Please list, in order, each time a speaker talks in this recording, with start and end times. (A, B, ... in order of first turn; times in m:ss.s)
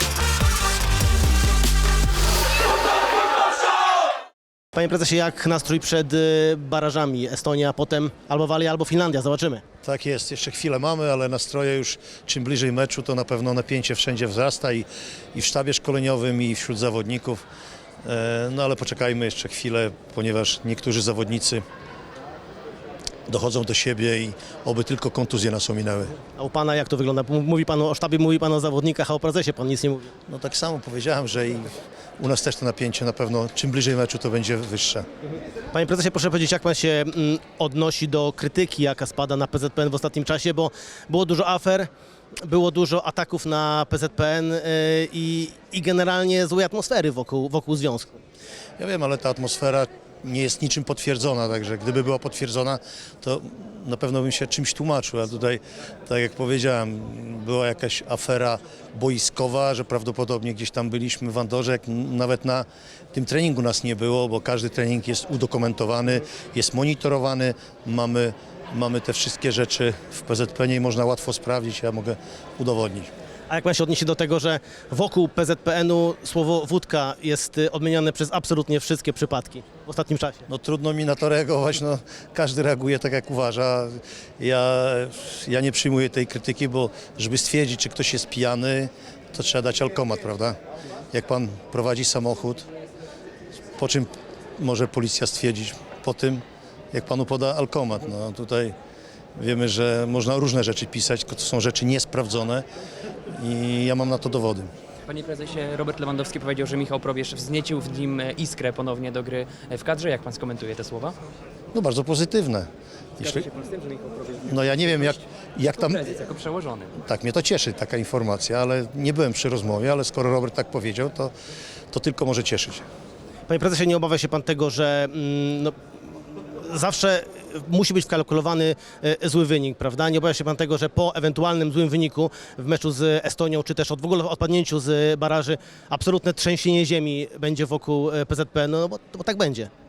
0:04.7-0:09.6 A
0:09.8-0:17.4 B
0:18.0-0:21.6 B
0:23.3-0:26.2 B
0:26.4-0:30.1 A
0:30.3-0:35.0 B
0:35.7-0:41.9 A
0:42.4-0:48.2 A
0:48.8-1:13.1 B
1:13.5-1:20.5 A
1:20.5-1:30.6 B
1:31.1-1:32.6 B
1:33.8-1:38.7 B
1:39.4-1:42.6 B
1:43.3-1:44.7 B
1:45.1-1:51.2 C
1:51.7-1:52.7 B
1:53.2-1:53.5 B
1:53.3-1:54.9 C
1:54.4-1:56.1 B
1:55.8-1:56.9 C
1:57.0-2:01.3 B
2:01.9-2:02.8 B
2:03.5-2:05.7 A
2:06.6-2:19.7 A